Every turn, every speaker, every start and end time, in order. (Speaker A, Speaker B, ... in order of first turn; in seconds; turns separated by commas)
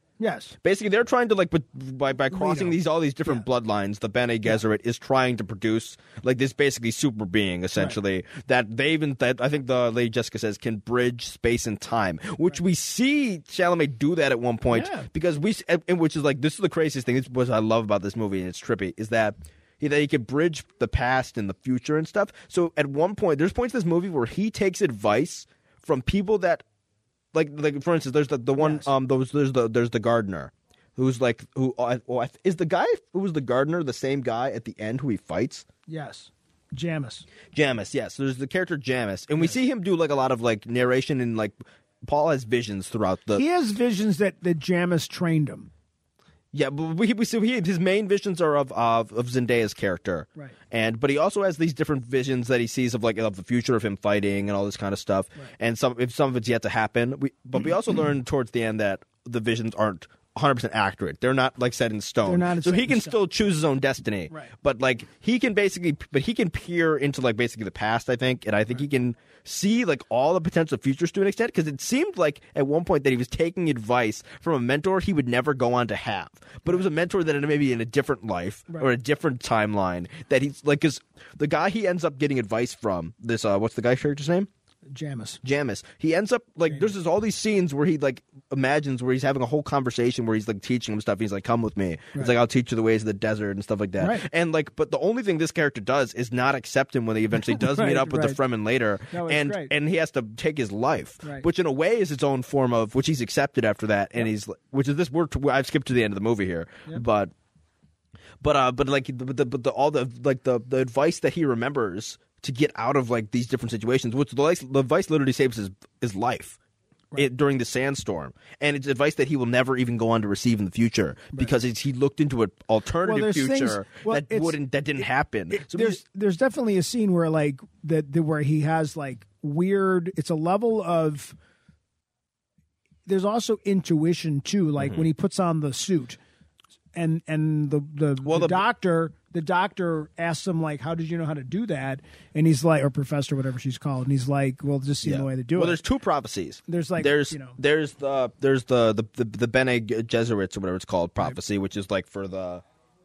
Speaker A: 0.2-0.6, Speaker B: 0.6-26.6, Speaker A: 2.3-2.8, Speaker A: 14.7-15.1, Speaker B: 27.3-35.7, Speaker A: 28.6-28.9, Speaker A: 35.9-37.3, Speaker B: 37.5-43.4, Speaker A: 43.4-45.7, Speaker B: 46.5-84.5, Speaker A: 62.2-63.2, Speaker A: 84.9-85.4, Speaker B: 85.4-107.3, Speaker A: 94.0-94.2, Speaker A: 97.4-98.4, Speaker A: 99.1-99.7, Speaker B: 108.4-116.6, Speaker B: 117.2-126.0, Speaker A: 123.0-124.6, Speaker A: 125.5-131.4, Speaker A: 133.1-136.2, Speaker B: 134.8-135.1, Speaker A: 136.9-145.8, Speaker B: 138.2-138.6, Speaker B: 145.0-152.6, Speaker A: 146.7-147.6